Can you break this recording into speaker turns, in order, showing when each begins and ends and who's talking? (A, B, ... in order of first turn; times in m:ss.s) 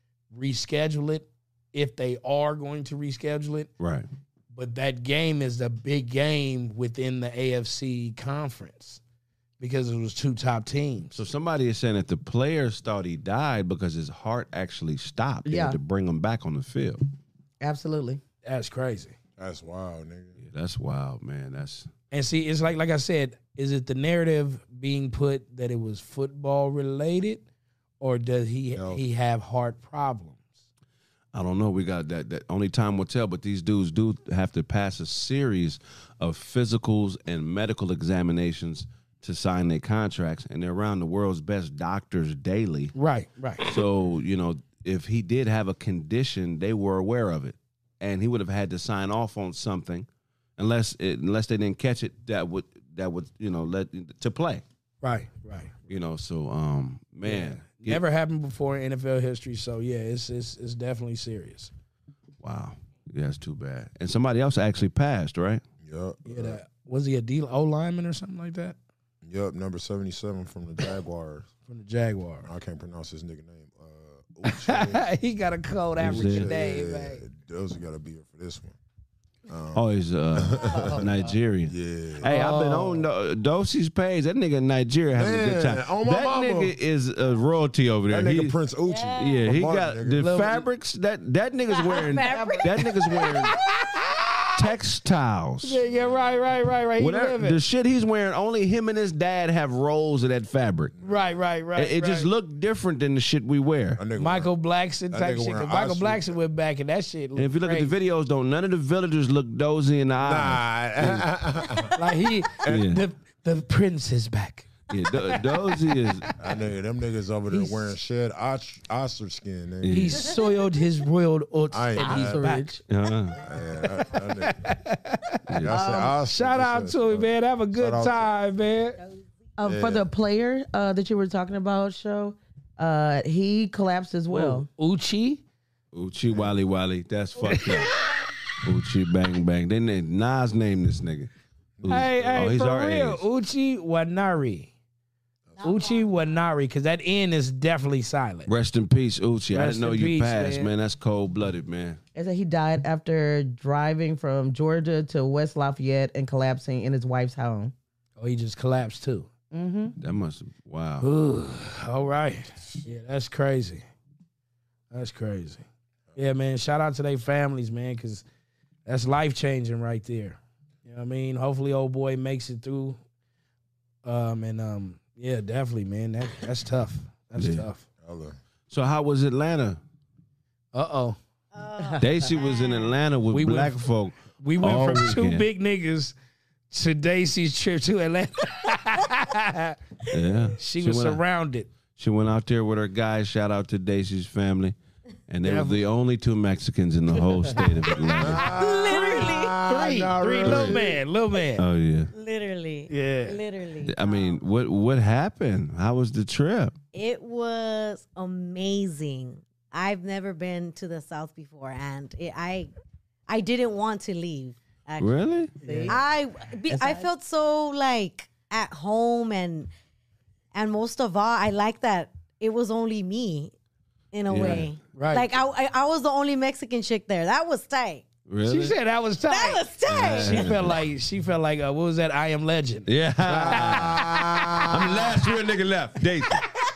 0:00.3-0:03.7 A
0:03.8-0:04.1 B
0:04.5-0:09.0 A
0:09.6-0:11.2 A
0:11.2-0:17.0 B
0:15.5-0:15.8 C
0:17.6-0:18.2 C
0:18.4-0:19.2 A
0:19.4-0:20.4 D
0:20.4-0:21.9 B
0:22.1-0:27.4 A
0:28.0-0:30.4 A
0:28.8-0:29.0 D
0:31.3-0:42.9 B
0:43.0-0:43.6 A
0:43.6-0:50.1 B
0:50.6-0:54.6 B
0:55.0-0:55.7 A
0:55.9-0:58.0 B
0:57.2-1:01.7 A
1:02.4-1:05.6 B
1:05.8-1:06.6 D
1:06.3-1:08.8 A
1:09.2-1:11.5 D
1:11.7-1:12.5 A
1:12.4-1:15.1 D
1:14.5-1:17.2 A
1:16.0-1:16.5 B
1:16.0-1:18.8 D
1:19.5-1:21.1 D
1:19.8-1:28.6 B
1:21.7-1:22.3 D
1:22.2-1:23.1 A
1:25.2-1:26.8 D
1:28.1-1:30.3 D
1:28.9-1:29.4 E
1:29.2-1:33.6 B
1:30.2-1:30.7 A
1:31.7-1:33.3 E
1:33.5-1:34.4 A
1:34.6-1:35.8 B
1:35.6-1:37.6 A
1:35.9-1:36.2 D
1:37.0-1:40.9 B
1:41.0-1:41.4 D
1:41.0-1:42.3 A
1:41.8-1:44.0 B
1:44.0-1:44.5 D
1:44.2-1:47.9 A
1:45.1-1:46.4 D
1:47.4-1:51.3 B
1:50.2-1:52.0 D
1:52.0-1:55.8 A
1:52.6-1:53.0 B
1:54.9-1:56.3 B
1:56.4-2:00.3 D
1:57.5-1:58.0 A
1:59.8-2:00.2 B
1:59.9-2:02.8 A
2:00.4-2:00.8 E
2:01.7-2:02.5 D
2:02.0-2:02.8 C
2:02.9-2:03.4 B
2:03.4-2:04.7 D
2:03.8-2:05.4 A
2:05.6-2:08.3 D
2:05.7-2:06.1 C
2:06.0-2:09.0 A
2:09.6-2:14.7 C
2:09.6-2:10.1 D
2:14.3-2:15.4 A
2:15.9-2:17.9 B
2:17.4-2:18.1 A
2:18.6-2:21.3 B
2:21.8-2:22.6 D
2:21.8-2:23.2 B
2:21.9-2:24.7 A
2:25.6-2:26.4 E
2:25.6-2:28.5 A
2:28.5-2:32.0 B
2:29.5-2:30.7 A
2:32.2-2:37.7 C
2:38.2-2:39.3 A
2:39.5-2:40.0 C
2:40.0-2:41.1 B
2:41.0-2:43.8 A
2:44.9-2:48.2 A
2:48.9-2:53.0 A
2:54.0-2:57.9 A
2:57.4-2:57.7 B
2:58.0-2:58.4 D
2:58.7-2:59.8 B
3:00.7-3:01.2 A
3:01.5-3:02.9 E
3:02.0-3:05.5 B
3:03.3-3:06.1 A
3:06.7-3:09.8 A
3:10.1-3:11.2 B
3:10.6-3:11.7 A
3:12.0-3:14.8 B
3:15.3-3:18.5 B
3:15.4-3:15.8 A
3:17.5-3:21.6 A
3:18.2-3:21.0 D
3:18.6-3:20.1 E
3:20.4-3:20.8 B
3:21.6-3:22.1 B
3:22.1-3:24.4 E
3:22.9-3:23.4 A
3:23.8-3:26.8 B
3:26.9-3:32.7 E
3:33.3-3:35.2 E
3:35.0-3:35.5 B
3:35.6-3:36.0 A
3:35.6-3:36.0 C
3:35.9-3:39.7 E
3:36.7-3:37.1 C
3:40.5-3:43.5 E
3:44.1-3:48.0 E
3:44.3-3:44.7 B
3:44.4-3:45.3 A
3:48.3-3:48.8 B
3:48.4-3:54.6 A
3:49.3-3:50.5 E
3:49.9-3:50.8 B
3:52.9-3:54.0 B
3:53.4-3:55.1 D
3:54.6-3:56.4 B